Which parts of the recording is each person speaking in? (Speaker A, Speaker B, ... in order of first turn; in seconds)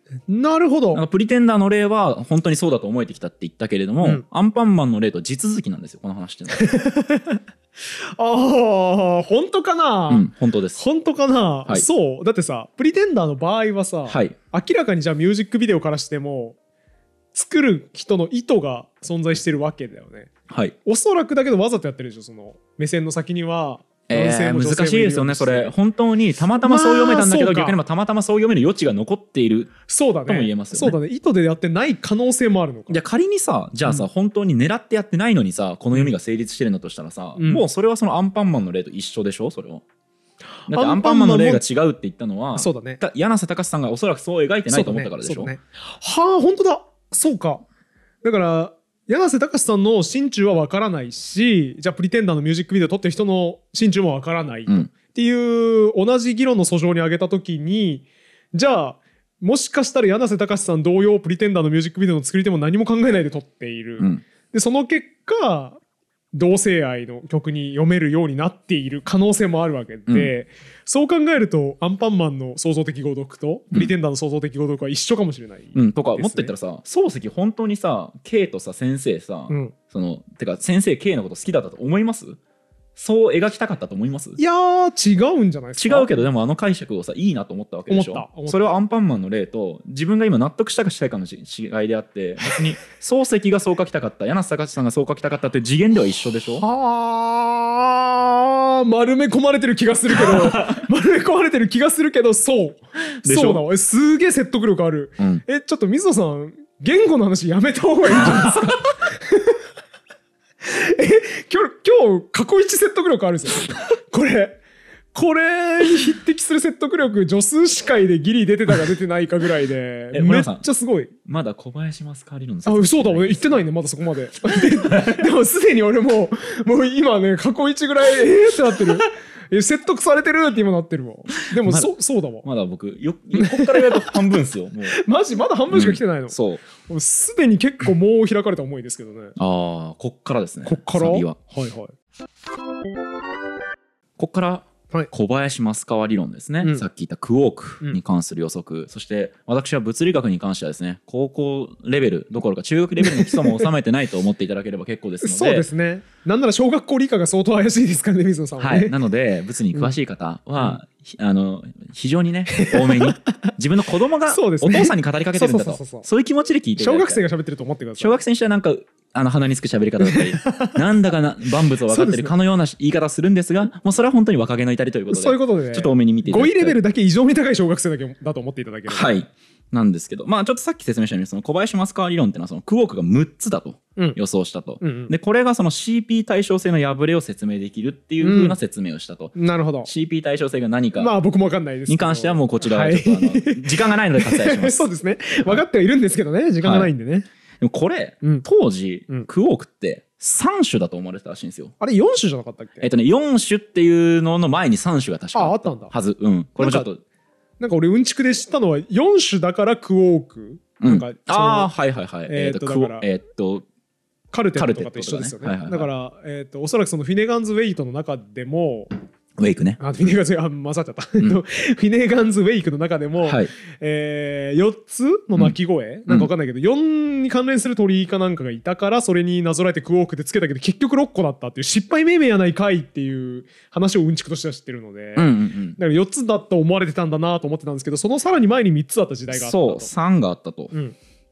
Speaker A: 0.3-1.0, 6.5-16.6, 17.3-20.3, 20.9-25.7, 26.6-27.8, 29.9-33.0, 37.4-37.6, 40.6-41.6, 42.5-43.0, 44.7-47.6, 48.2-65.8, 66.3-76.5, 79.5-79.8, 84.4-86.3, 87.9-88.8, 96.6-109.6, 110.6-114.6, 115.1-121.1, 122.7-132.4, 133.3-134.1, 134.9-139.4, 140.7-141.9, 153.0-153.7, 155.2-158.9, 162.5-163.5, 164.3-166.1, 166.8-168.2, 170.0-170.8, 171.9-172.3, 175.1-179.2, 184.8-185.1, 188.2-188.6, 189.3-189.9, 191.0-197.3, 201.8-202.9, 205.3-205.9, 206.6-206.9, 207.6-211.7, 212.3-213.0, 214.3-218.9, 219.8-239.9
Speaker B: 0.9-6.7, 10.1-10.8, 14.1-14.3, 20.5-20.8, 24.1-31.0, 32.9-39.8, 40.7-45.5, 75.7-82.4, 83.0-84.4, 85.8-96.7, 100.1-100.8, 103.2-103.6, 105.2-105.4, 108.1-108.7, 120.1-120.7, 121.2-123.7, 124.4-125.3, 131.6-135.0, 135.7-136.6, 139.4-141.4, 144.2-155.7, 158.6-167.2, 168.0-176.8, 178.9-191.1, 191.9-194.9, 196.6-196.9, 197.6-201.7, 202.8-207.0, 210.8-213.7, 214.6-215.9, 219.4-219.8, 223.2-223.5, 235.2-235.8, 239.3-240.7